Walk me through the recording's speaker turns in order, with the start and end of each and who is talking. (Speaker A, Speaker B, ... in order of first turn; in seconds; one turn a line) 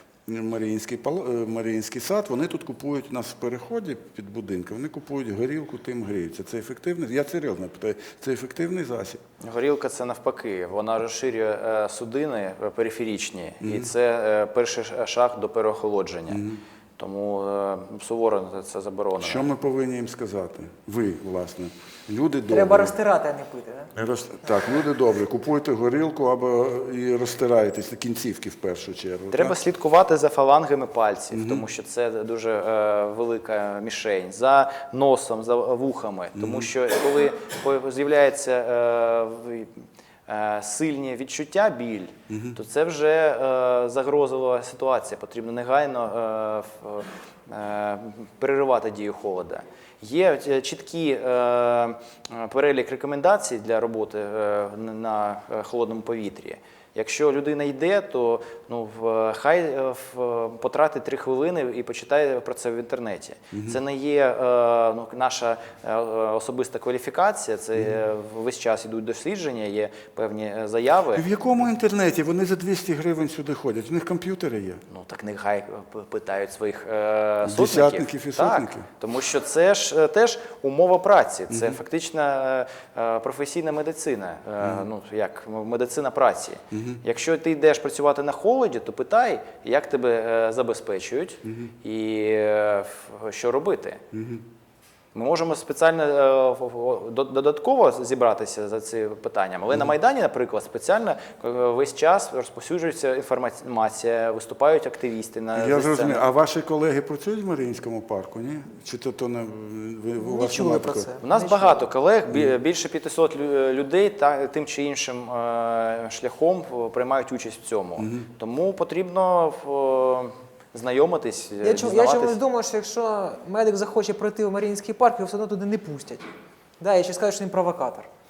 Speaker A: 0.3-9.2
Speaker B: 9.4-19.5
Speaker A: 13.6-13.9
Speaker A: 16.3-16.6
Speaker A: 19.2-22.9
Speaker C: 22.5-23.9
Speaker A: 23.9-29.6
Speaker B: 29.3-71.3
Speaker A: 31.3-31.6
Speaker A: 36.4-36.7
Speaker A: 42.3-42.6
Speaker A: 63.5-63.8
Speaker A: 71.2-74.8
Speaker B: 74.9-94.0
Speaker A: 77.4-78.9
Speaker A: 81.5-81.8
Speaker A: 86.7-87.0
Speaker A: 91.5-91.7
Speaker A: 94.1-94.4
Speaker B: 95.1-106.2
Speaker A: 105.5-111.1
Speaker C: 110.2-111.8
Speaker B: 111.2-122.4
Speaker A: 118.0-118.2
Speaker C: 121.6-126.3
Speaker C: 126.8-128.1